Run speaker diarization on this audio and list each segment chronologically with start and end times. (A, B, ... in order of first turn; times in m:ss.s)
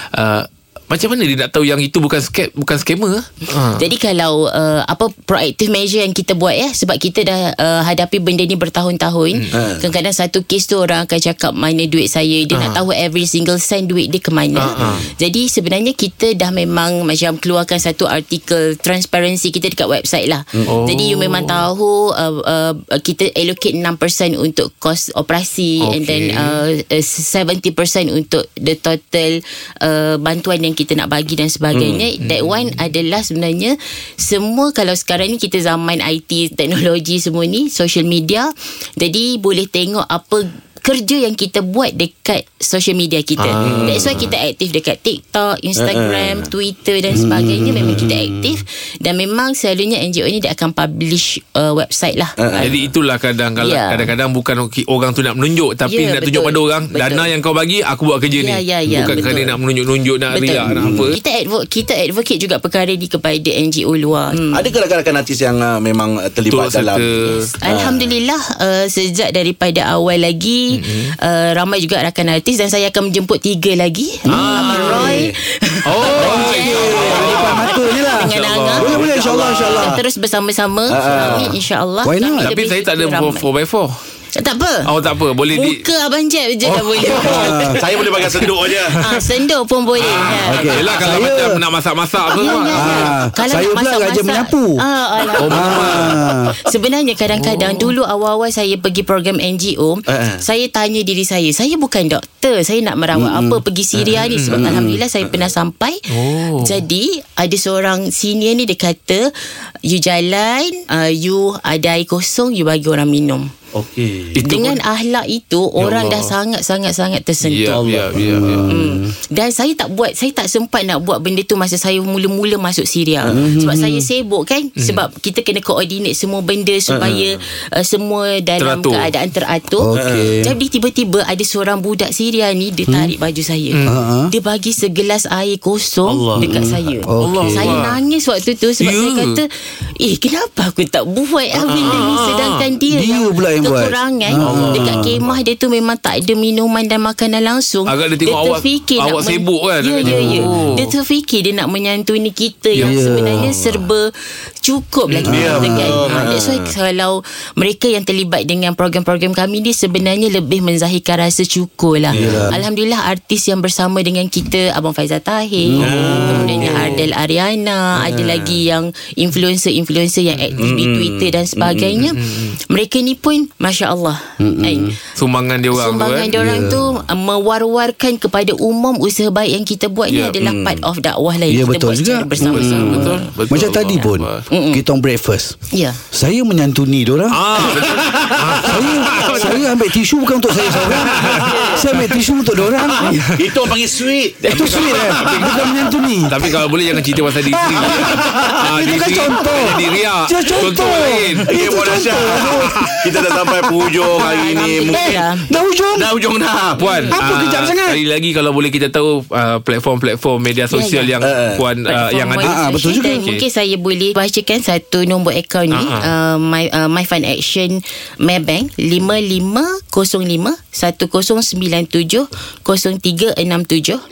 0:00.1-0:03.8 A
0:03.6-0:52.8 B
0:09.5-0:09.9 C
0:12.5-0:12.8 A
0:14.6-0:15.1 A
0:14.8-0:15.1 C
0:20.7-0:21.6 A
0:25.8-0:26.6 A
0:31.7-0:32.0 C
0:32.2-0:32.5 A
0:43.4-0:44.3 A
0:43.6-0:44.1 C
0:45.8-0:46.5 C
0:47.1-0:48.6 D
0:52.4-0:52.7 C
0:52.6-1:01.2 A
0:53.6-0:54.1 B
0:55.9-0:57.3 B
0:58.3-0:59.6 B
0:58.9-0:59.2 C
1:00.3-1:04.7 B
1:00.8-1:01.1 C
1:04.4-1:07.0 C
1:06.5-1:07.3 A
1:07.2-1:23.5 B
1:07.6-1:08.1 C
1:10.7-1:11.2 A
1:14.3-1:14.9 D
1:14.3-1:15.2 A
1:14.8-1:15.4 C
1:15.9-1:19.1 A
1:16.1-1:20.0 D
1:18.8-1:20.0 C
1:20.9-1:21.6 C
1:22.0-1:22.5 D
1:22.4-1:24.0 A
1:24.4-1:24.9 B
1:24.9-1:25.8 A
1:25.5-1:28.3 B
1:27.0-1:29.0 C
1:27.1-1:27.8 D
1:28.9-1:31.0 B
1:30.0-1:33.1 A
1:30.4-1:31.6 D
1:32.3-1:49.3 B
1:32.7-1:34.8 D
1:35.4-1:36.2 A
1:35.5-1:36.6 D
1:37.4-1:37.9 A
1:40.1-1:40.4 C
1:43.1-1:43.6 D
1:44.0-1:45.4 C
1:44.3-1:44.6 A
1:44.5-1:45.0 D
1:46.1-1:46.8 A
1:49.8-1:53.5 B
1:53.7-1:54.4 C
1:54.4-1:54.8 A
1:54.4-1:57.8 B
1:55.8-1:56.3 A
1:57.4-1:58.7 A
1:57.7-1:58.6 C
1:58.2-1:59.2 D
1:58.7-2:34.1 B
2:03.2-2:03.6 C
2:03.3-2:04.1 D
2:04.8-2:05.0 A
2:06.9-2:07.4 C
2:08.6-2:09.1 A
2:09.8-2:10.6 D
2:09.9-2:10.4 C
2:12.9-2:13.1 D
2:13.7-2:14.0 A
2:13.8-2:14.3 D
2:16.1-2:16.5 C
2:16.4-2:17.9 D
2:17.2-2:18.0 A
2:18.8-2:19.4 A
2:21.6-2:22.1 C
2:21.7-2:22.6 A
2:22.9-2:25.1 D
2:24.4-2:25.4 C
2:27.9-2:30.9 A
2:30.0-2:30.8 D
2:32.8-2:33.6 D
2:33.3-2:33.9 C
2:34.6-2:54.9 B
2:35.1-2:35.5 A
2:35.2-2:36.1 D
2:35.3-2:36.7 C
2:42.1-2:42.6 C
2:42.1-2:42.6 D
2:45.6-2:46.6 D
2:45.8-2:47.0 C
2:46.0-2:47.0 A
2:48.1-2:48.5 C
2:50.6-2:52.1 C
2:52.2-2:52.6 A
2:54.4-2:54.9 D
2:55.2-2:56.5 A
2:55.7-3:03.3 B
2:56.4-2:56.8 D
3:00.1-3:00.4 A
3:00.4-3:00.9 C
3:01.5-3:07.6 D
3:02.5-3:04.5 A
3:04.5-3:04.8 B
3:05.7-3:06.0 B
3:07.3-3:09.7 A
3:07.6-3:09.4 C
3:08.6-3:13.3 D
3:10.8-3:12.1 A
3:10.8-3:11.8 C
3:11.5-3:11.8 B
3:13.0-3:13.3 A
3:13.4-3:15.7 C
3:14.5-3:15.6 A
3:14.5-3:23.4 D
3:16.3-3:21.6 A
3:18.0-3:18.6 C
3:21.5-3:25.2 C
3:24.1-3:25.5 B
3:24.9-3:26.1 D
3:26.0-3:26.8 C
3:26.8-3:27.2 B
3:26.8-3:33.4 A
3:27.1-3:28.0 D
3:30.7-3:31.1 B
3:31.2-3:31.6 C
3:31.9-3:44.0 B
3:32.4-3:33.2 D
3:35.7-3:36.1 A